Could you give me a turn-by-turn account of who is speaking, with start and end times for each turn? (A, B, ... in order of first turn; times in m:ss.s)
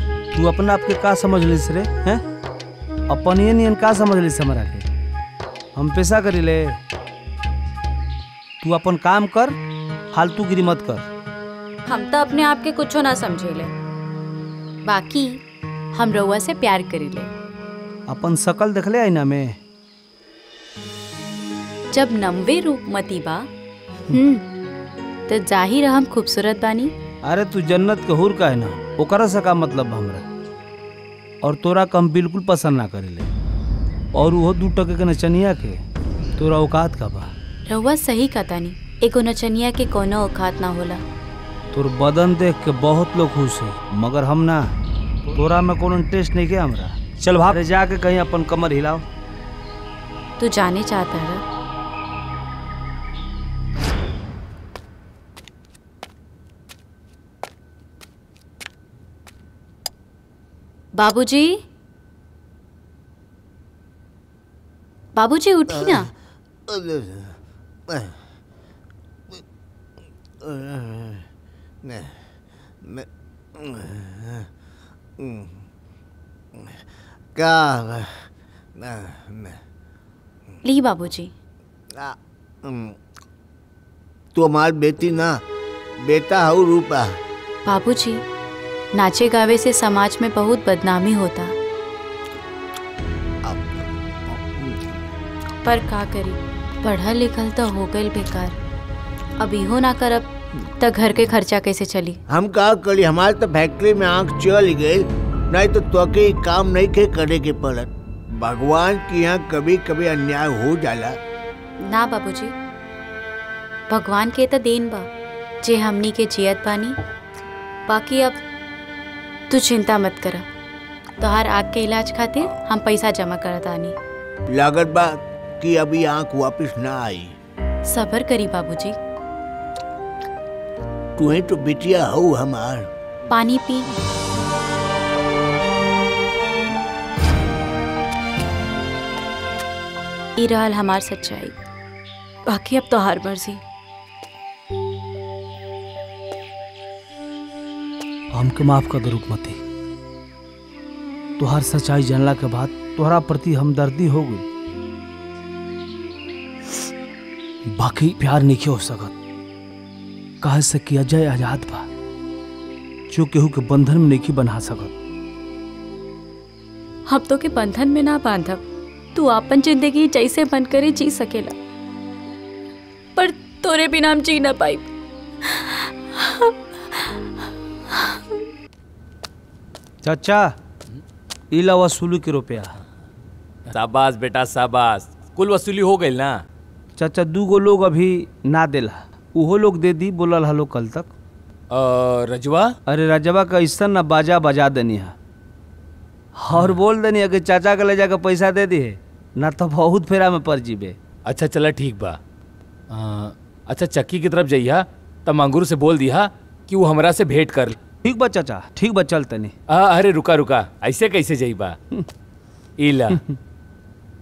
0:00.3-0:02.2 A
0:03.1-0:04.9 A
0:05.8-0:06.8 A
0:08.6-0:09.6 A
0:10.1-0:11.1 A
0:11.9-0:13.7 B
0:14.8-0:15.4 B
0:15.9-0:17.3 B
0:18.1-0:19.6 A
0:21.9-0:23.5 B
0:24.1-0:24.4 B
0:25.3-0:26.9 B
0:27.2-0:30.2 A
0:31.4-0:33.3 A
0:34.1-0:35.8 A
0:36.4-0:37.3 A
0:37.7-0:41.0 B
0:41.7-0:44.7 A
0:45.3-0:49.0 A
0:50.4-0:51.4 B
1:01.0-1:01.6 B
1:05.2-1:06.1 B
1:06.7-1:07.4 C
1:07.9-1:08.1 C
1:10.4-1:11.3 C
1:11.8-1:12.2 C
1:12.8-1:14.5 C
1:15.2-1:15.6 C
1:17.4-1:19.6 C
1:20.6-1:21.3 B
1:21.9-1:23.0 C
1:24.4-1:25.4 C
1:26.0-1:27.1 C
1:27.6-1:28.2 B
1:28.9-1:31.5 B
1:33.4-1:33.7 C
1:34.3-1:34.8 C
1:35.6-1:38.6 B
1:39.4-1:42.2 B
1:42.3-1:51.2 C
1:51.8-1:52.6 B
1:53.9-1:55.1 B
1:55.6-1:57.0 B
1:57.9-1:58.4 B
1:59.5-2:00.5 B
2:01.2-2:04.0 B
2:04.5-2:07.4 C
2:07.9-2:09.0 B
2:11.2-2:12.9 C
2:13.3-2:13.9 B
2:20.4-2:21.6 B
2:22.5-2:23.6 B
2:28.3-2:29.6 A
2:31.4-2:34.5 A
2:37.7-2:39.1 A
2:40.4-2:41.9 A
2:43.1-2:45.0 A
2:47.1-2:48.6 B
2:49.1-2:51.6 B
2:53.2-2:54.9 B
2:55.4-2:57.2 B
2:57.9-2:58.4 B
3:00.0-3:00.5 A
3:01.5-3:02.8 A
3:03.7-3:06.4 D
3:07.0-3:11.1 A
3:11.7-3:12.7 D
3:12.9-3:15.2 A
3:16.4-3:21.0 A
3:21.3-3:22.2 D
3:22.9-3:27.8 D
3:28.0-3:29.5 A
3:29.7-3:31.8 D
3:32.8-3:33.2 D